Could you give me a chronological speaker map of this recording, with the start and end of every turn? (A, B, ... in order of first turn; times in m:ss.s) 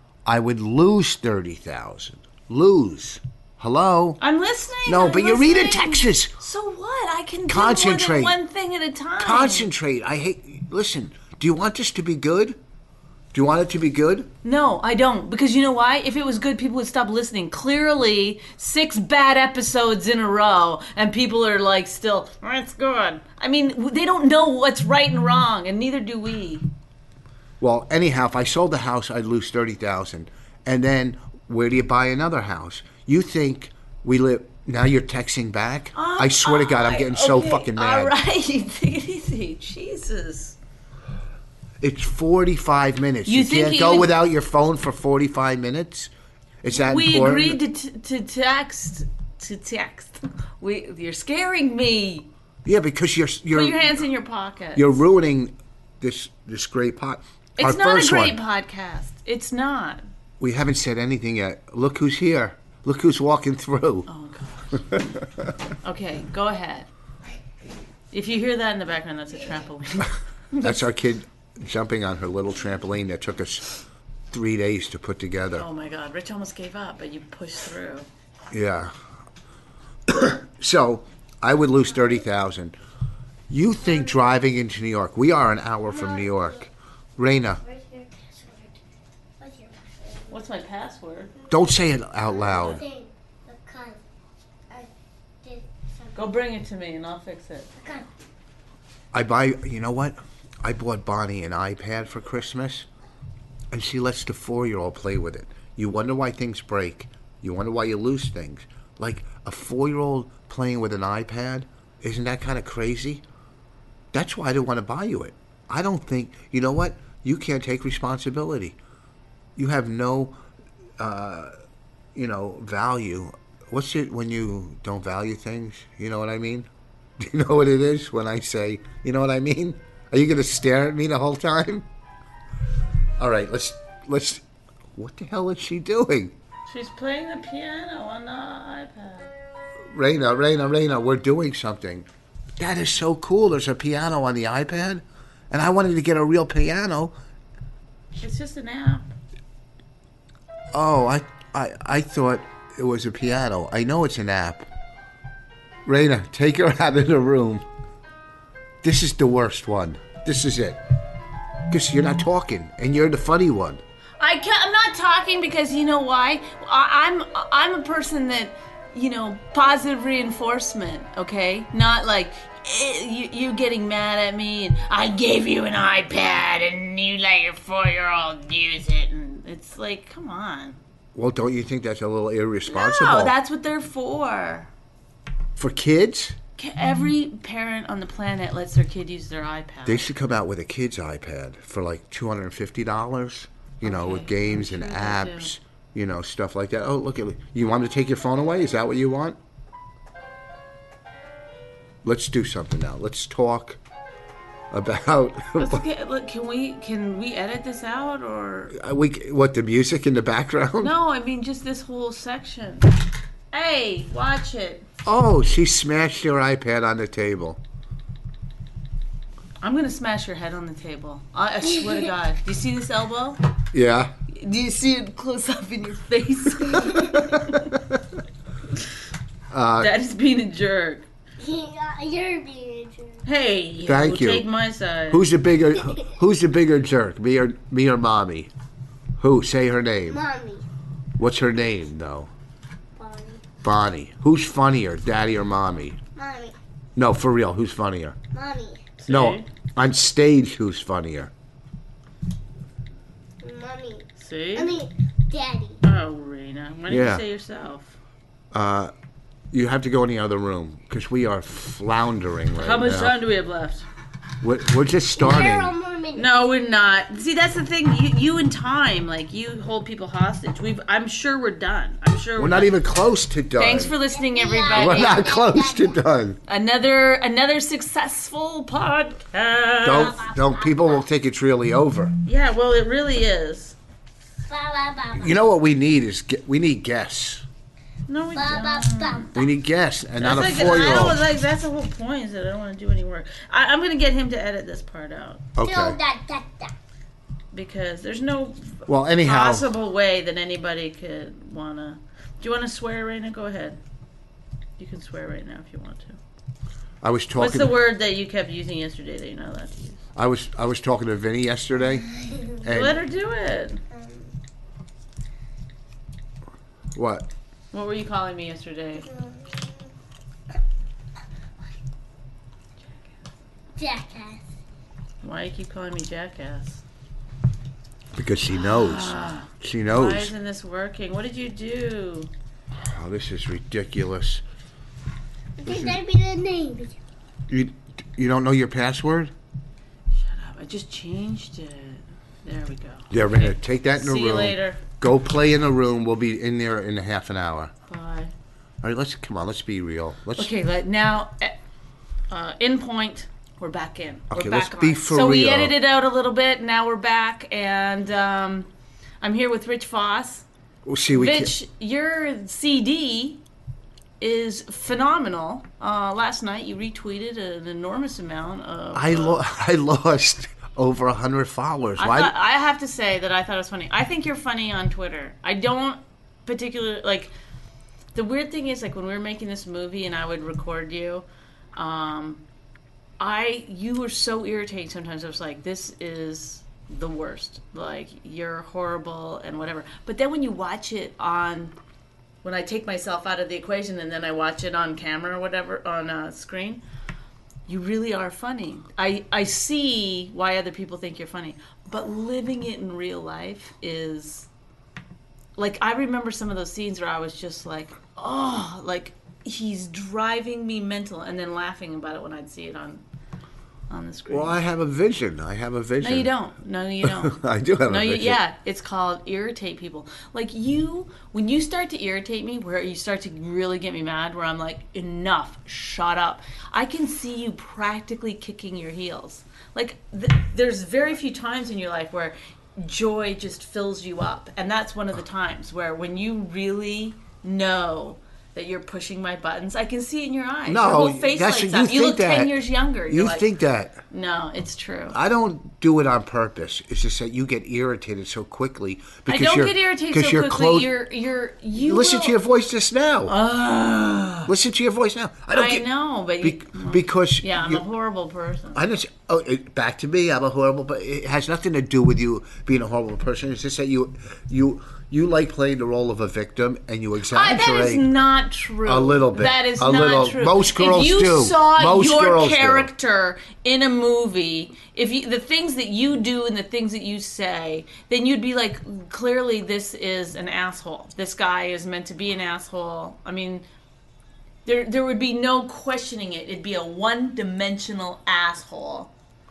0:00.3-0:04.2 A
0:04.2-0:09.7 B
0:04.9-0:06.3 A
0:07.5-0:08.4 A
0:09.2-0:12.6 A
0:13.3-0:14.3 A
0:14.4-0:26.7 B
0:27.6-0:38.1 A
0:35.9-0:40.6 B
0:41.8-0:46.1 A
0:43.3-0:44.1 B
0:46.6-0:47.6 A
0:46.7-0:52.3 B
0:52.6-0:54.0 A
0:53.5-0:54.9 B
0:54.8-0:58.4 A
0:57.6-1:00.0 B
1:00.4-1:04.1 A
1:04.1-1:05.0 B
1:05.8-1:06.9 B
1:08.1-1:10.8 B
1:10.6-1:13.8 A
1:14.3-1:15.7 A
1:15.6-1:18.1 B
1:18.5-1:18.9 A
1:20.1-1:22.8 A
1:23.5-1:27.6 A
1:25.9-1:26.7 C
1:27.6-1:28.8 C
1:29.4-1:30.4 C
1:30.3-1:31.3 B
1:31.4-1:34.0 C
1:31.5-1:32.8 A
1:35.4-1:36.3 C
1:36.2-1:37.7 B
1:37.8-1:38.1 C
1:39.1-1:42.9 A
1:43.7-1:53.2 A
1:54.1-1:58.8 A
1:59.6-2:00.4 A
2:01.0-2:01.5 A
2:02.2-2:11.9 A
2:13.2-2:14.4 A
2:15.0-2:16.3 A
2:16.7-2:19.3 B
2:19.9-2:22.1 A
2:22.6-2:27.1 A
2:28.2-2:29.1 B
2:30.7-2:34.7 A
2:35.8-2:37.6 A
2:38.8-2:40.8 A
2:41.7-2:43.8 A
2:44.2-3:00.8 B
3:01.1-3:03.4 A
3:02.7-3:04.7 B
3:05.6-3:06.4 A
3:06.6-3:10.1 B
3:09.9-3:19.4 A
3:13.8-3:15.5 B
3:22.0-3:23.8 A
3:24.7-3:25.8 A
3:25.6-3:28.8 B
3:28.7-3:30.9 A
3:30.8-3:32.9 B
3:33.5-3:34.9 B
3:35.0-3:37.6 A
3:39.6-3:43.4 B
3:43.7-3:44.1 A
3:44.3-3:47.8 B
3:47.3-3:47.8 A
3:49.5-3:49.9 A
3:49.8-3:51.1 B
3:51.4-3:53.2 C
3:53.3-3:55.3 B
3:53.9-3:54.5 A
3:55.1-3:58.5 A
3:59.2-4:00.2 A
4:00.1-4:00.6 C
4:01.2-4:02.3 A
4:03.0-4:03.4 C
4:03.6-4:06.0 A
4:06.2-4:06.6 C
4:07.0-4:08.2 A
4:08.3-4:08.9 C
4:09.0-4:09.5 B
4:09.1-4:11.3 A
4:13.4-4:15.8 C
4:14.2-4:14.8 B
4:15.8-4:18.0 B
4:16.9-4:17.2 A
4:18.5-4:18.9 A
4:19.5-4:23.2 A
4:22.6-4:23.9 B
4:24.4-4:25.7 A
4:25.2-4:26.4 C
4:26.2-4:32.8 B
4:32.4-4:34.0 A
4:33.6-4:35.4 B
4:34.1-4:36.0 C
4:34.7-4:36.4 A
4:36.5-4:40.2 B
4:39.8-4:42.2 A
4:39.9-4:41.0 C
4:42.2-4:43.8 B
4:44.5-4:45.4 C
4:45.2-4:47.4 A
4:48.1-4:49.4 B
4:48.4-4:49.5 C
4:49.3-4:51.2 A
4:50.2-4:55.5 B
4:55.6-4:56.0 A
4:55.6-4:56.7 C
4:57.5-5:03.8 B
4:58.9-4:59.7 A
5:04.8-5:06.2 B
5:07.0-5:07.8 A
5:07.4-5:10.0 B
5:10.2-5:12.1 A
5:11.9-5:12.7 C
5:12.6-5:13.0 A
5:12.7-5:13.8 B
5:13.9-5:14.3 C
5:17.0-5:17.3 A
5:17.7-5:19.1 B
5:19.0-5:19.9 C
5:23.8-5:24.5 C
5:25.2-5:26.8 B
5:28.1-5:30.3 A
5:28.5-5:32.3 B
5:32.8-5:34.4 A
5:35.6-5:37.0 C
5:35.7-5:36.0 A
5:37.5-5:39.3 A
5:40.1-5:44.8 B
5:43.1-5:47.7 A
5:47.9-5:48.3 B
5:48.8-5:50.5 A
5:50.4-5:51.6 B
5:52.3-5:58.7 B
5:54.3-5:55.7 A
5:59.2-6:00.5 B
6:00.9-6:01.5 A
6:01.1-6:03.4 B
6:04.2-6:09.4 B
6:09.0-6:12.3 A
6:12.0-6:17.3 B
6:18.1-6:22.4 B
6:23.2-6:31.8 B
6:32.4-6:36.8 B
6:37.7-6:44.5 B
6:45.6-6:53.0 B
6:53.9-6:54.6 B
6:54.3-6:56.3 A
6:56.0-7:23.5 B
6:57.0-6:58.4 A
7:20.7-7:22.6 A
7:23.1-7:24.0 A
7:24.1-7:25.2 B
7:25.1-7:30.9 A
7:29.3-7:32.4 B
7:31.8-7:33.3 A
7:33.3-7:34.5 B
7:34.5-7:35.9 A
7:35.5-7:38.8 B
7:36.4-7:37.8 A
7:38.8-7:48.1 A
7:47.2-8:03.6 B
7:48.8-7:52.9 A
8:04.7-8:09.1 B